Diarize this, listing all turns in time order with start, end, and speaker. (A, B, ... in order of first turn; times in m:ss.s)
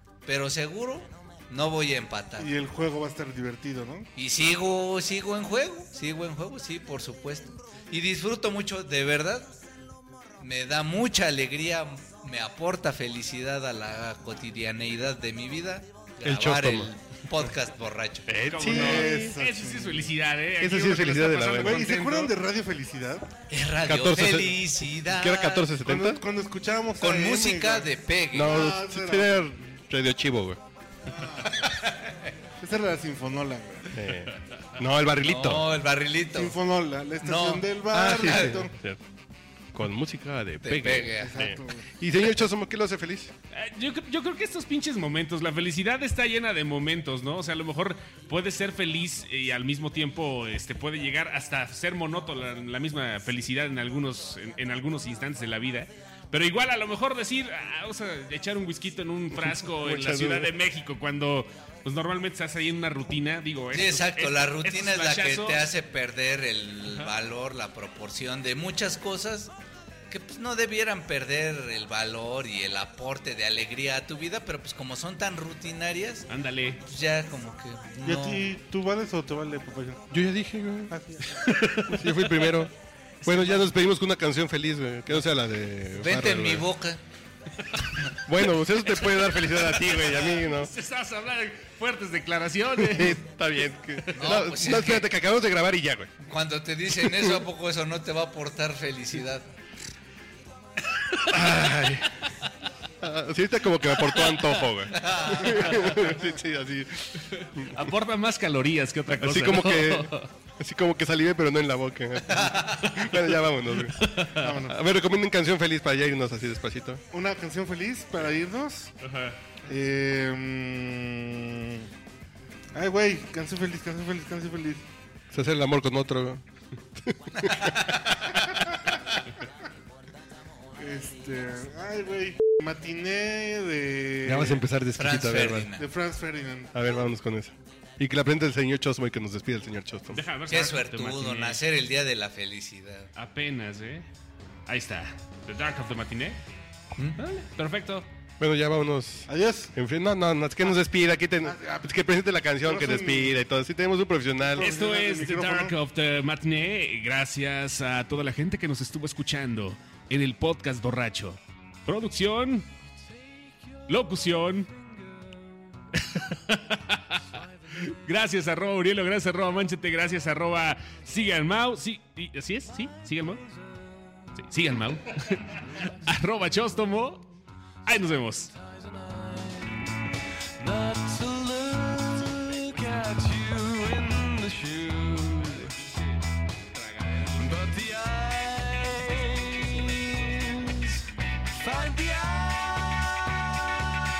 0:00.2-0:02.5 A
0:02.4-0:04.1 B
0:04.2-0:09.6 A
0:10.4-0:18.3 A
0:16.2-0:16.9 C
0:18.3-0:19.4 C
0:18.5-0:22.3 D
0:18.6-0:20.1 B
0:20.6-0:21.8 C
0:21.6-0:23.3 B
0:23.5-0:25.7 A
0:23.8-0:26.2 C
0:25.8-0:29.4 B
0:27.0-0:28.7 A
0:28.3-0:30.6 C
0:31.0-0:31.8 B
0:31.8-0:32.2 A
0:32.6-0:34.1 B
0:33.9-0:35.7 C
0:35.2-0:36.6 A
0:36.3-0:38.7 B
0:37.2-0:38.6 A
0:37.9-0:39.0 C
0:39.7-0:43.3 C
0:40.6-0:41.4 A
0:41.2-0:41.9 B
0:43.5-1:05.7 D
0:59.6-1:00.5 C
1:03.7-1:09.5 A
1:06.9-1:07.1 D
1:10.1-1:16.3 A
1:16.3-1:16.8 D
1:16.8-1:18.5 A
1:18.0-1:20.1 B
1:20.1-1:21.0 C
1:20.9-1:21.4 B
1:21.4-1:22.7 D
1:21.8-1:22.7 C
1:23.2-1:23.7 D
1:23.2-1:26.7 C
1:26.0-1:27.0 A
1:27.6-1:28.2 D
1:28.2-1:30.7 C
1:28.8-1:33.2 D
1:32.8-1:36.2 C
1:34.1-1:35.1 A
1:36.2-1:39.5 A
1:40.9-1:41.3 D
1:41.3-1:42.3 C
1:43.0-1:47.8 C
1:44.1-1:44.7 D
1:44.9-1:45.8 A
1:47.3-1:50.3 D
1:49.1-1:57.0 C
1:52.3-1:52.8 A
1:52.9-1:54.6 D
1:54.4-1:54.8 B
1:57.1-1:58.9 B
1:59.0-1:59.4 D
1:59.6-2:01.9 B
2:02.7-2:04.8 B
2:05.3-2:06.4 C
2:07.0-2:08.3 C
2:07.4-2:08.1 A
2:10.8-2:14.6 B
2:14.2-2:15.7 C
2:15.0-2:15.8 A
2:15.8-2:16.7 B
2:16.7-2:20.2 C
2:20.1-2:21.6 D
2:20.5-2:23.1 A
2:23.2-2:24.1 D
2:24.7-2:26.4 D
2:27.2-2:28.1 D
2:28.4-2:34.7 C
2:29.3-2:29.7 B
2:31.4-2:31.9 B
2:32.6-2:33.4 B
2:34.5-2:35.7 B
2:34.6-2:42.7 D
2:43.9-2:44.7 D
2:45.9-2:53.4 D
2:54.3-2:57.3 D
2:57.8-2:58.5 D
3:00.6-3:05.4 E
3:07.4-3:10.9 E
3:11.6-3:12.6 E